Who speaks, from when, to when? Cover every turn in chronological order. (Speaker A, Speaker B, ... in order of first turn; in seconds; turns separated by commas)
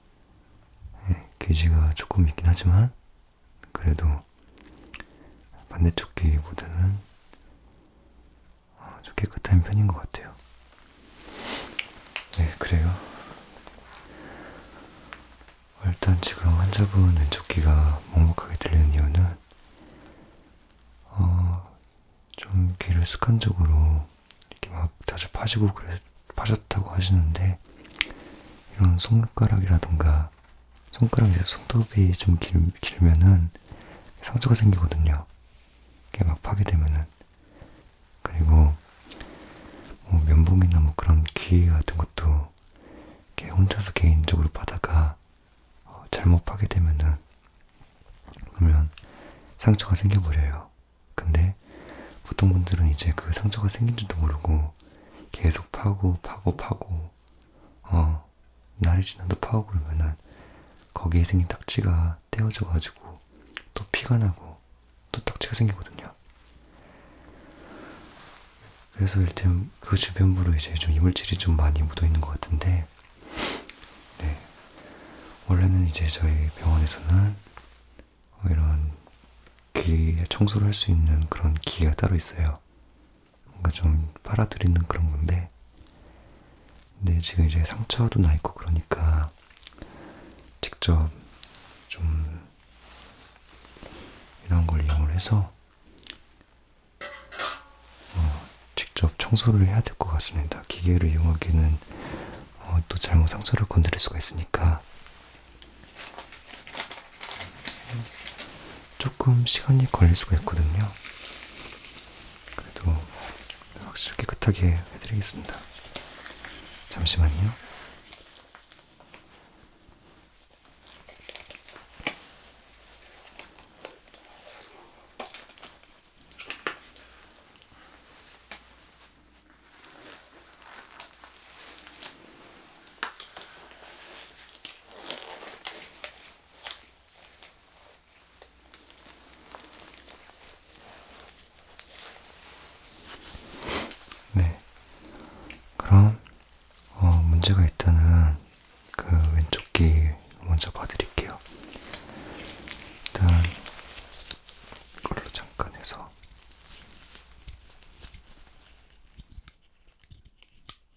Speaker A: 1.0-2.9, Speaker A: 3.6-4.2, Speaker A: 5.7-7.0, Speaker A: 8.8-10.4, Speaker A: 12.3-13.2, Speaker A: 15.8-19.4, Speaker A: 21.1-21.8, Speaker A: 22.3-27.6, Speaker A: 28.7-30.3, Speaker A: 30.9-33.6, Speaker A: 34.2-35.3, Speaker A: 36.1-37.1, Speaker A: 38.2-38.8, Speaker A: 40.0-42.5, Speaker A: 43.4-45.2, Speaker A: 45.9-47.2, Speaker A: 48.5-49.0, Speaker A: 49.6-51.6, Speaker A: 52.2-54.8, Speaker A: 55.3-57.1, Speaker A: 57.8-60.2, Speaker A: 60.9-66.1, Speaker A: 68.9-72.9, Speaker A: 74.2-74.5, Speaker A: 75.4-77.4, Speaker A: 78.4-79.0, Speaker A: 79.7-82.6, Speaker A: 83.5-85.5, Speaker A: 87.0-89.3, Speaker A: 90.6-91.3, Speaker A: 91.9-92.5, Speaker A: 94.4-95.5, Speaker A: 98.1-104.8, Speaker A: 109.0-111.0, Speaker A: 112.6-113.2, Speaker A: 113.7-115.6, Speaker A: 116.9-117.6, Speaker A: 144.3-144.6, Speaker A: 145.8-146.2, Speaker A: 146.9-151.4, Speaker A: 153.1-153.6, Speaker A: 155.0-156.1